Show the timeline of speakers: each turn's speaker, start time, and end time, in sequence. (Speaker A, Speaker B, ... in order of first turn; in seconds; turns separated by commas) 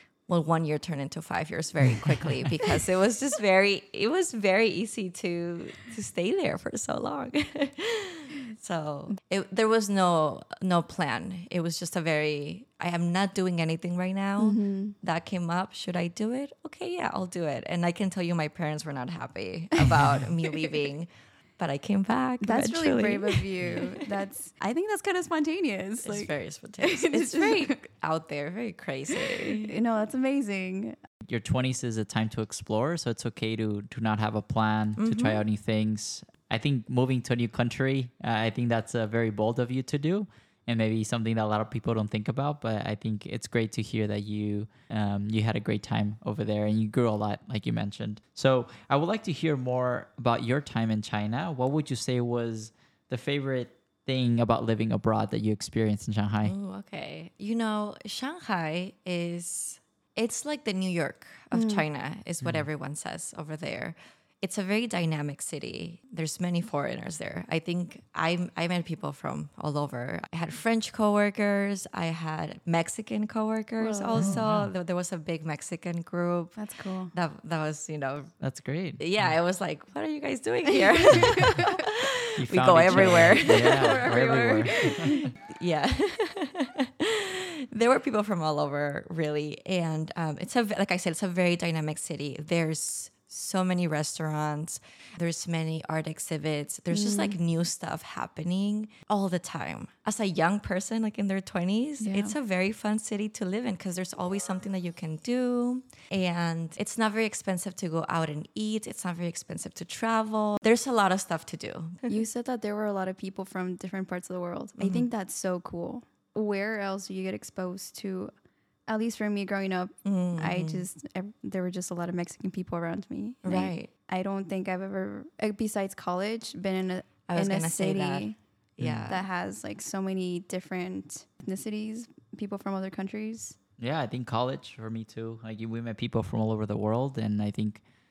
Speaker A: 0.3-24.0, Speaker B: 1.8-2.6, Speaker C: 14.4-14.9, Speaker C: 19.8-20.8, Speaker C: 22.4-27.8, Speaker A: 26.0-29.7, Speaker C: 29.1-31.0, Speaker B: 31.2-56.5, Speaker A: 35.0-35.4, Speaker A: 56.4-76.6, Speaker C: 61.5-61.8, Speaker C: 73.8-74.4, Speaker B: 74.1-74.7, Speaker C: 76.6-77.1, Speaker A: 77.1-78.3, Speaker B: 78.4-79.3, Speaker A: 79.0-112.1, Speaker C: 81.0-81.8, Speaker B: 81.2-81.5, Speaker B: 82.4-85.3, Speaker C: 82.9-85.3, Speaker C: 96.9-97.3, Speaker C: 102.0-102.3, Speaker C: 112.1-118.3, Speaker A: 114.8-115.1, Speaker C: 118.9-128.3, Speaker A: 120.0-120.8, Speaker A: 123.4-123.9, Speaker A: 127.3-129.3, Speaker B: 128.8-129.1, Speaker C: 129.1-133.6, Speaker B: 133.8-137.8